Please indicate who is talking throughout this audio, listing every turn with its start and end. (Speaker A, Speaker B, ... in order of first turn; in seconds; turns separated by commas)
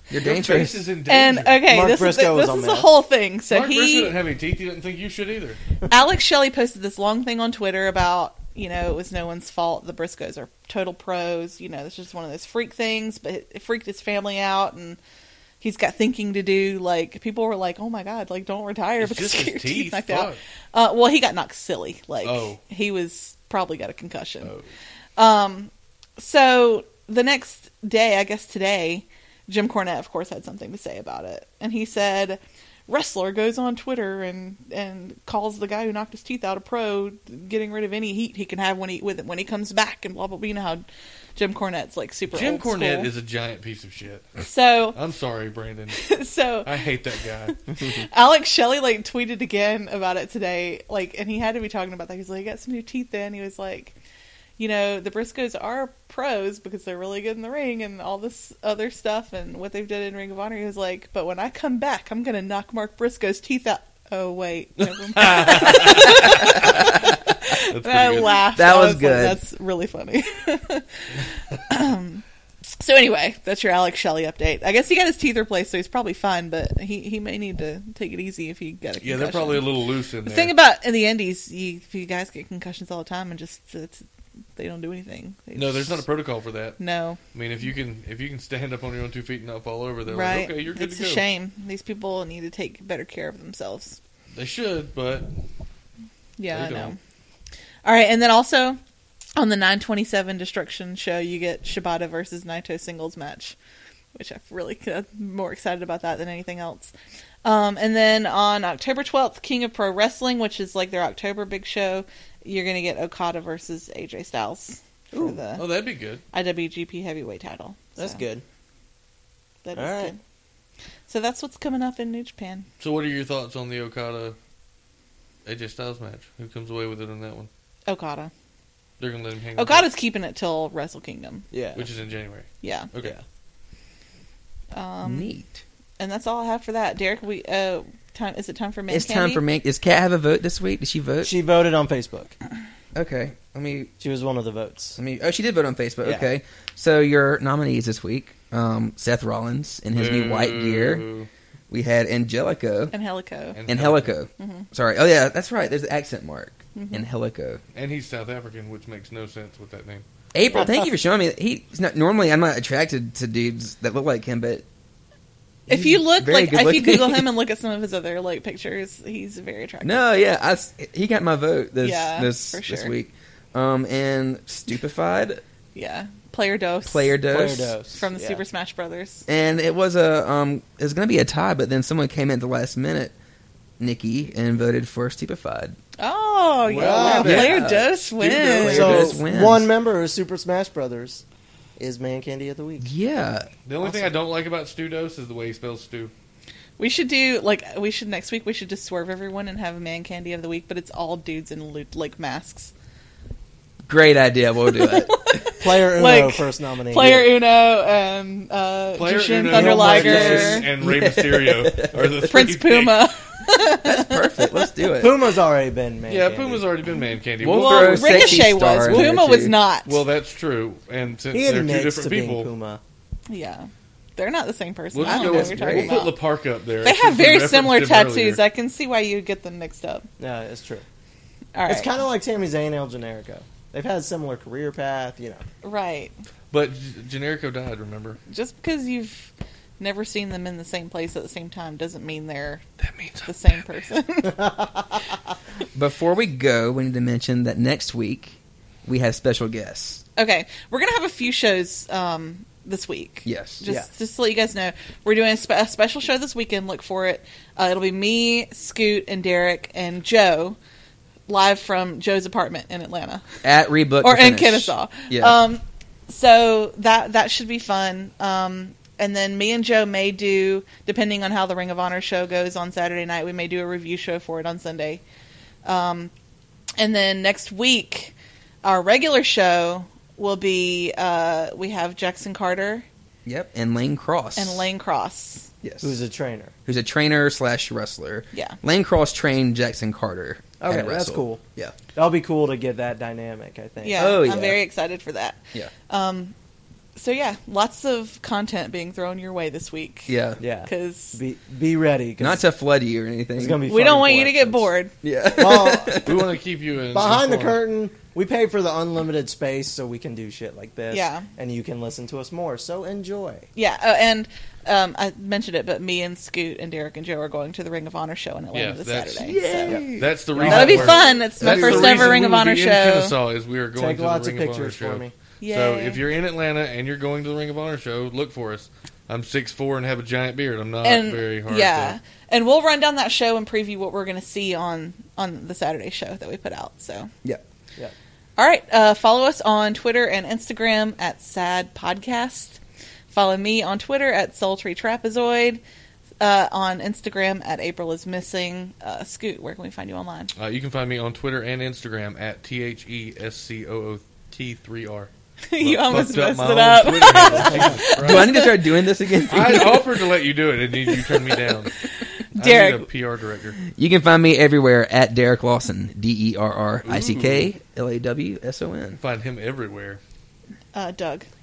Speaker A: 0.1-0.9, Speaker B: 0.1-1.6, Speaker C: 1.1-4.2, Speaker D: 1.7-2.9, Speaker B: 3.5-5.6, Speaker C: 5.9-15.0, Speaker C: 15.6-24.5, Speaker B: 19.0-20.4, Speaker B: 22.2-22.6, Speaker C: 25.2-40.8, Speaker C: 41.4-43.1, Speaker B: 42.3-44.4, Speaker C: 44.4-45.0, Speaker B: 44.9-47.5, Speaker C: 46.0-46.7, Speaker C: 47.5-53.9, Speaker C: 54.6-72.2, Speaker B: 64.8-68.4, Speaker A: 66.1-66.8, Speaker A: 68.5-69.4, Speaker C: 72.8-79.7, Speaker B: 79.0-80.5, Speaker C: 80.2-84.0, Speaker C: 84.5-86.0, Speaker B: 85.5-86.8, Speaker C: 86.8-87.2, Speaker B: 87.3-91.2, Speaker C: 90.1-94.0, Speaker B: 94.3-95.3, Speaker C: 96.4-97.0, Speaker B: 96.5-97.0, Speaker C: 97.8-98.8, Speaker C: 99.3-103.5, Speaker C: 104.1-106.9, Speaker C: 107.4-115.6, Speaker D: 115.1-115.4, Speaker B: 115.5-116.2, Speaker C: 116.3-118.2, Speaker D: 118.0-118.4, Speaker C: 119.6-120.2, Speaker D: 119.7-120.1, Speaker C: 121.1-122.7, Speaker B: 122.8-124.4, Speaker B: 125.4-127.5, Speaker C: 127.9-128.3, Speaker B: 129.0-129.9, Speaker C: 129.6-131.4, Speaker D: 131.5-131.9, Speaker B: 131.7-133.2, Speaker C: 132.6-132.9, Speaker C: 134.7-135.3, Speaker A: 135.0-135.6, Speaker C: 136.0-139.4, Speaker A: 138.9-141.3, Speaker D: 141.2-142.3, Speaker A: 142.9-143.9, Speaker D: 144.0-145.0, Speaker A: 145.0-151.1, Speaker D: 146.0-146.3, Speaker B: 149.9-151.3, Speaker A: 151.7-152.9, Speaker C: 152.9-153.6, Speaker B: 153.5-154.2, Speaker A: 153.7-157.6, Speaker C: 154.4-154.7, Speaker C: 156.7-157.1, Speaker B: 157.7-160.0, Speaker A: 160.3-164.7, Speaker D: 160.5-160.8, Speaker A: 165.7-167.3, Speaker C: 165.7-170.1, Speaker A: 169.8-175.4, Speaker C: 171.8-172.9, Speaker C: 175.7-177.2, Speaker A: 176.8-177.7, Speaker D: 177.3-178.4, Speaker C: 177.9-179.2, Speaker A: 179.3-183.1, Speaker A: 183.8-185.8, Speaker C: 186.0-189.2, Speaker B: 186.7-188.9, Speaker D: 186.7-187.6, Speaker A: 187.2-187.9, Speaker A: 188.6-189.7, Speaker D: 188.6-191.2, Speaker D: 191.8-192.9, Speaker A: 192.8-193.5, Speaker B: 193.7-196.1, Speaker C: 196.8-202.7, Speaker A: 203.8-205.4, Speaker C: 204.7-210.7, Speaker D: 205.6-207.3, Speaker B: 209.0-213.1, Speaker D: 209.5-210.7, Speaker A: 210.8-212.3, Speaker C: 212.3-214.7, Speaker A: 213.7-215.1, Speaker D: 215.0-216.7, Speaker B: 216.1-218.4, Speaker A: 217.4-219.6, Speaker C: 217.5-220.0, Speaker B: 219.8-222.5, Speaker D: 221.3-222.8, Speaker C: 223.3-226.2, Speaker B: 224.9-228.4, Speaker A: 225.0-225.9, Speaker C: 226.8-230.1, Speaker D: 230.2-230.8, Speaker C: 231.5-231.9, Speaker D: 231.7-235.4, Speaker C: 235.6-236.2, Speaker B: 236.5-238.2, Speaker C: 238.3-242.6, Speaker B: 242.8-243.6, Speaker C: 243.2-244.6, Speaker D: 244.2-245.0, Speaker A: 245.7-250.0, Speaker C: 250.2-260.6, Speaker A: 253.2-253.6, Speaker C: 261.3-263.2, Speaker A: 263.4-265.4, Speaker C: 264.0-275.0, Speaker C: 275.6-276.1, Speaker C: 276.8-282.9, Speaker A: 283.2-284.6, Speaker C: 284.4-285.5, Speaker A: 285.6-286.0, Speaker D: 285.8-286.5, Speaker A: 286.6-291.7, Speaker C: 288.3-288.6, Speaker D: 290.6-291.4, Speaker D: 291.9-294.5, Speaker C: 293.8-296.3, Speaker A: 294.0-294.6, Speaker C: 296.9-301.2, Speaker A: 300.1-300.4, Speaker D: 300.4-302.4, Speaker A: 302.2-303.7, Speaker D: 303.3-304.7, Speaker C: 303.6-304.9, Speaker A: 305.0-306.3, Speaker D: 305.3-306.3, Speaker B: 306.0-307.6, Speaker D: 306.9-313.5, Speaker C: 310.9-311.3, Speaker C: 313.5-319.8, Speaker B: 318.5-319.3, Speaker A: 319.2-320.8, Speaker D: 319.6-322.2, Speaker B: 319.9-332.0, Speaker C: 320.5-323.1, Speaker A: 321.4-322.1, Speaker D: 323.7-325.1, Speaker C: 325.4-326.0, Speaker C: 330.8-337.1, Speaker C: 338.4-345.6, Speaker C: 346.2-350.3, Speaker B: 350.3-358.3, Speaker C: 355.5-358.7, Speaker D: 357.2-357.8, Speaker A: 357.9-359.9, Speaker B: 359.3-361.7, Speaker C: 360.9-362.9, Speaker B: 362.3-363.6, Speaker A: 363.6-369.0, Speaker B: 366.8-367.5, Speaker B: 369.0-370.0, Speaker C: 370.7-371.3